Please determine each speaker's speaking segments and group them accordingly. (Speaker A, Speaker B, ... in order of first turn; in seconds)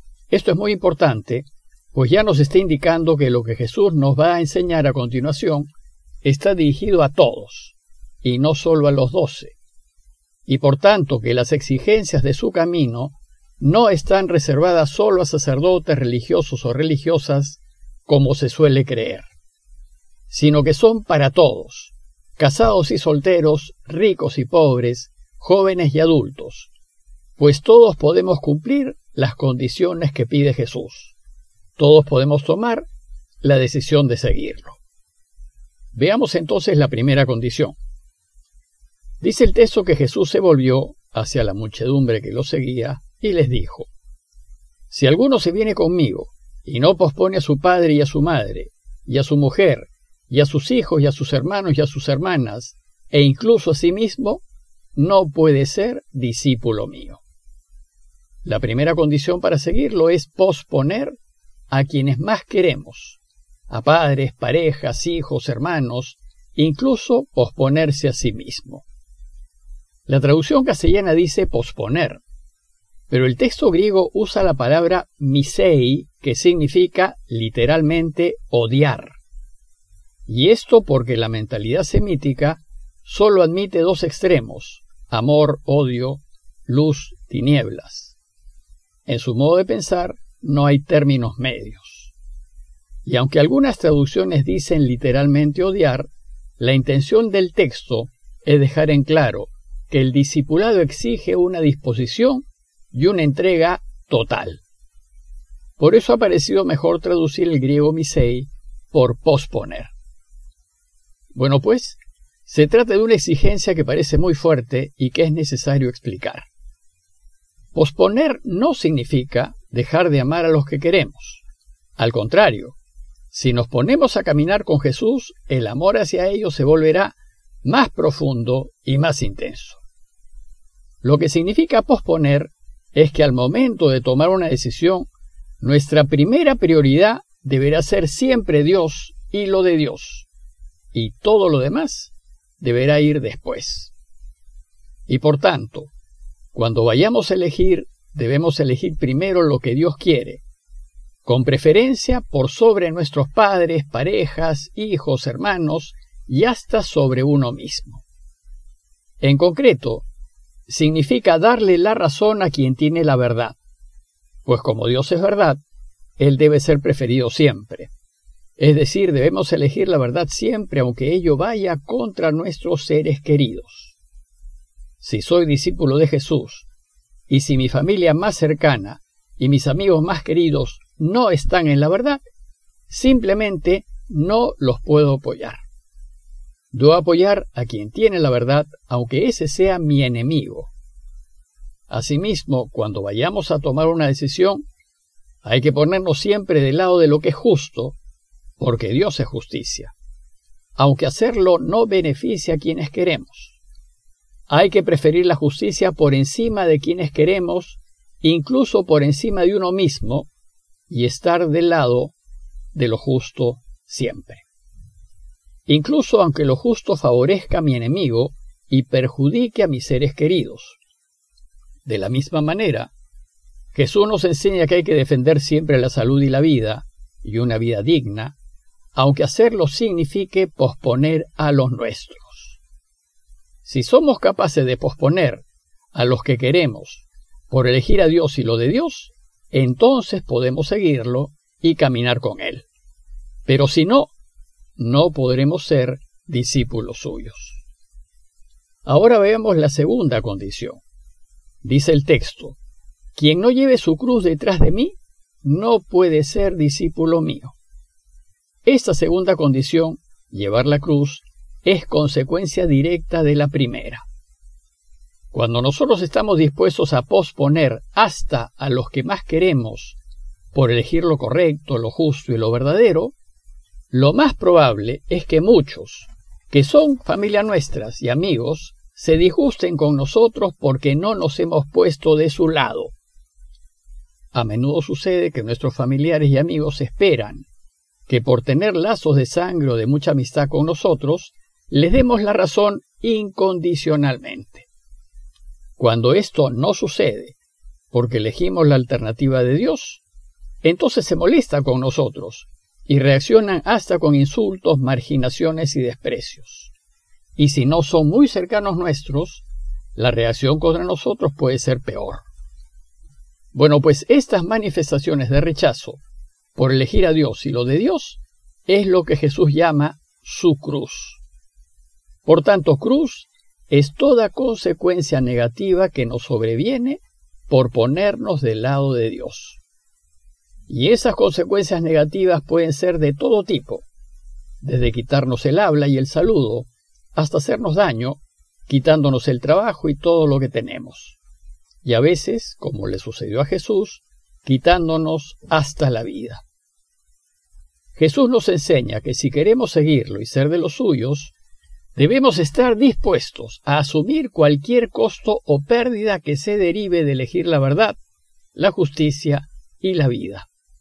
Speaker A: 0.3-5.7, 6.2-9.6, 10.5-19.3, 20.3-26.7, 27.4-31.1, 31.8-32.9, 33.4-34.8, 35.9-37.8, 39.2-43.9, 44.9-54.4, 55.0-57.2, 58.5-61.2, 61.7-68.8, 70.1-72.2, 73.1-79.2, 80.3-88.2, 89.1-92.1, 93.0-104.6, 105.8-109.9, 111.3-116.5, 117.8-121.4, 122.0-122.8, 123.3-129.8, 131.0-135.1, 135.6-140.3, 140.9-143.9, 145.1-145.9, 146.5-150.4, 151.2-158.0, 159.2-160.1, 160.7-163.6, 164.4-165.6, 166.2-167.9, 168.6-173.9, 175.0-176.7, 177.3-182.2, 182.9-185.6, 186.7-190.7, 191.9-194.7, 195.4-198.0, 198.6-199.9, 200.8-203.6, 204.5-210.3, 210.9-212.1, 212.7-214.5, 215.7-220.8, 221.9-222.9, 223.7-228.3, 228.9-232.6, 233.7-242.7, 243.5-244.1, 244.8-247.6, 248.8-250.8, 251.6-252.6, 253.2-257.6, 258.6-264.1, 265.3-270.0, 270.5-273.1, 273.9-282.9, 284.3-287.5, 288.1-294.7, 295.8-297.4, 297.9-300.0, 300.6-306.7, 307.4-309.4, 310.0-312.2, 313.5-316.0, 316.6-321.2, 322.3-329.6, 330.7-333.9, 334.6-341.2, 341.8-346.4, 348.0-351.3, 352.0-358.0, 358.6-360.5